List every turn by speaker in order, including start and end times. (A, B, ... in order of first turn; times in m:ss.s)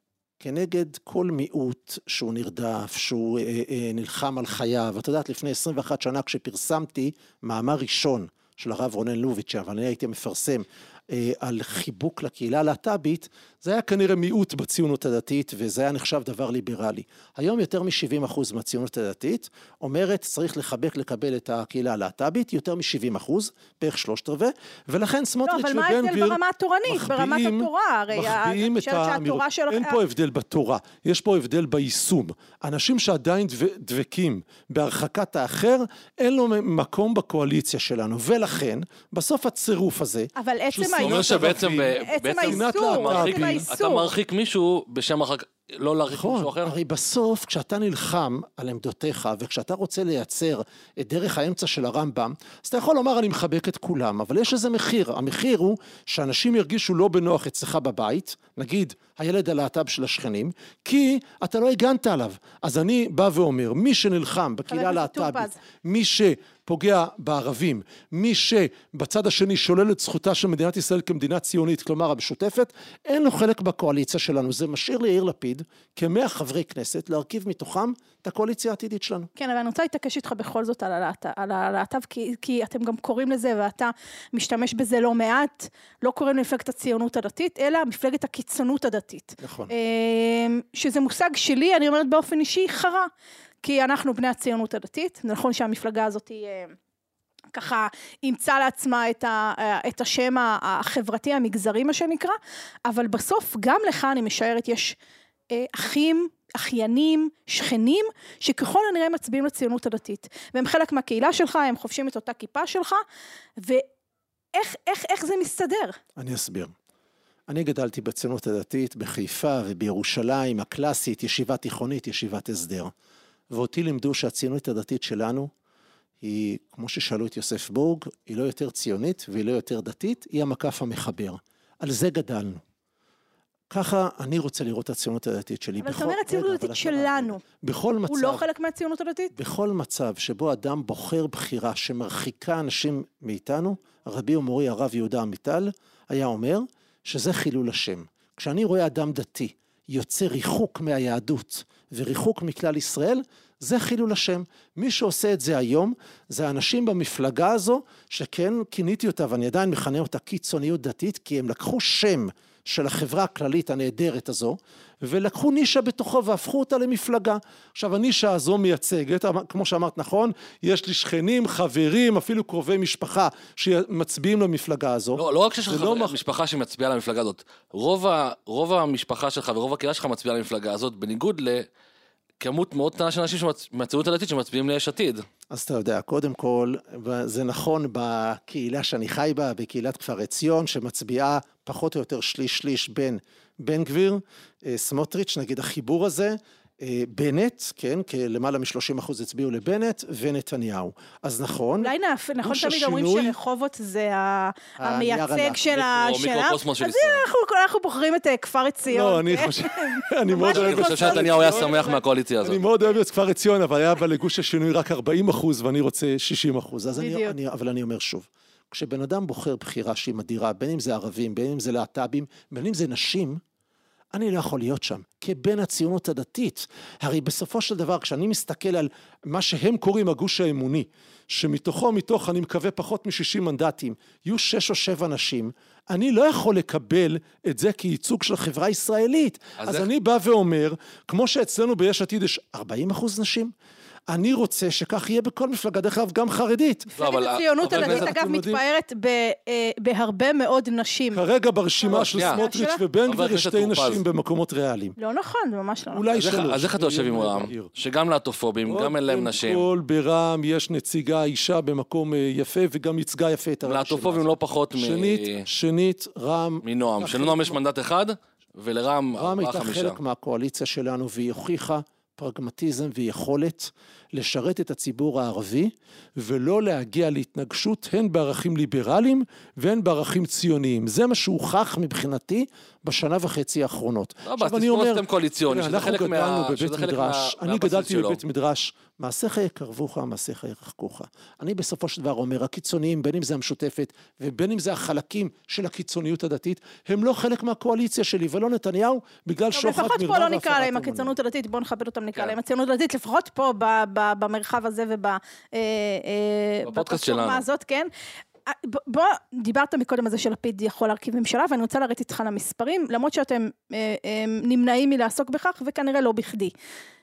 0:00.4-0:43.6 A
0:25.4-0:30.0 B
0:40.3-0:44.1 B
0:41.0-0:46.8 C
0:46.1-1:19.3 A
1:04.7-1:05.6 B
1:19.4-1:33.1 B
1:29.4-1:29.7 A
1:33.6-1:36.8 B
1:37.5-1:45.0 B
1:45.5-1:53.0 B
1:53.6-1:53.8 B
1:54.5-1:56.0 B
1:56.2-1:56.7 A
1:57.5-2:02.9 A
2:03.5-2:05.5 A
2:06.2-2:12.6 A
2:13.7-2:18.5 A
2:15.8-2:17.4 B
2:18.1-2:19.3 B
2:19.3-2:56.2 A
2:55.2-3:01.7 C
3:02.4-3:05.2 C
3:05.5-3:21.9 A
3:21.8-3:32.0 B
3:22.4-3:23.4 A
3:24.8-3:25.6 A
3:25.7-3:27.2 C
3:28.8-3:43.4 A
3:30.5-3:32.6 C
3:37.0-3:37.4 B
3:44.1-4:03.5 A
3:59.6-3:59.9 C
4:04.1-4:06.9 A
4:06.9-4:11.2 B
4:07.0-4:08.1 C
4:07.6-4:08.6 A
4:11.1-4:14.9 A
4:11.8-4:12.8 B
4:11.9-4:12.4 C
4:13.1-4:14.0 C
4:15.0-4:16.0 B
4:15.9-4:17.7 A
4:16.1-4:19.6 C
4:18.6-4:27.6 A
4:23.6-4:25.4 C
4:26.6-4:30.0 C
4:29.1-5:01.1 A
4:44.2-4:48.2 C
4:59.5-5:07.9 B
5:06.6-5:07.4 C
5:08.5-5:16.5 B